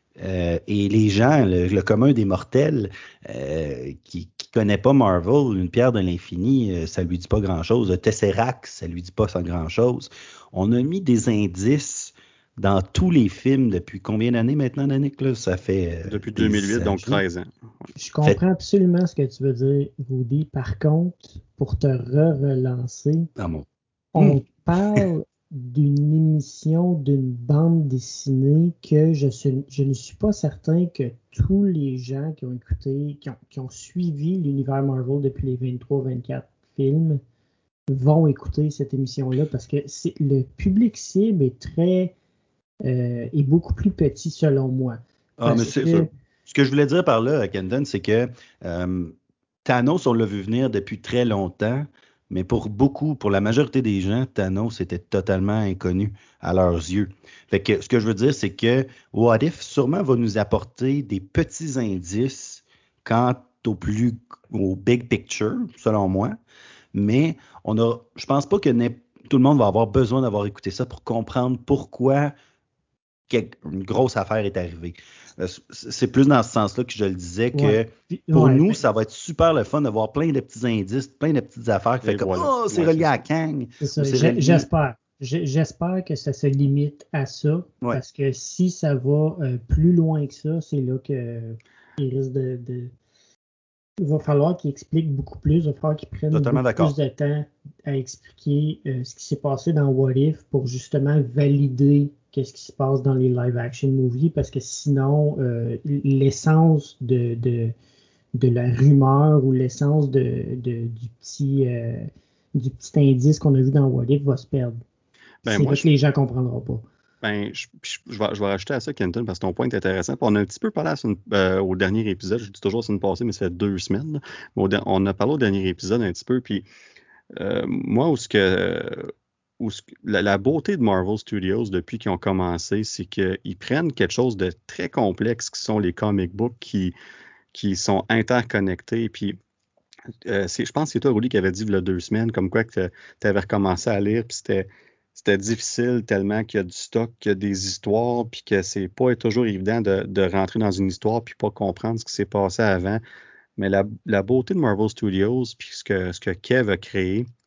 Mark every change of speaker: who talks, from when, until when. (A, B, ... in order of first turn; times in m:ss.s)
0:00.2-0:17.2 A
0:16.1-0:17.5 B
0:18.0-0:23.3 C
0:23.4-0:24.4 A
0:24.2-0:37.2 C
0:37.9-0:42.2 C
0:42.8-0:46.1 C
0:45.4-1:06.4 A
1:06.9-1:12.3 A
1:13.3-1:24.7 A
1:17.5-1:18.8 C
1:22.0-1:23.2 B
1:23.8-1:32.9 C
1:34.0-1:47.7 C
1:36.3-1:37.0 A
1:48.4-1:54.8 C
1:55.4-1:55.8 B
1:55.4-1:56.8 C
1:57.2-2:06.7 B
2:07.4-2:17.0 B
2:17.5-2:19.4 B
2:20.2-2:33.0 B
2:33.6-2:37.3 B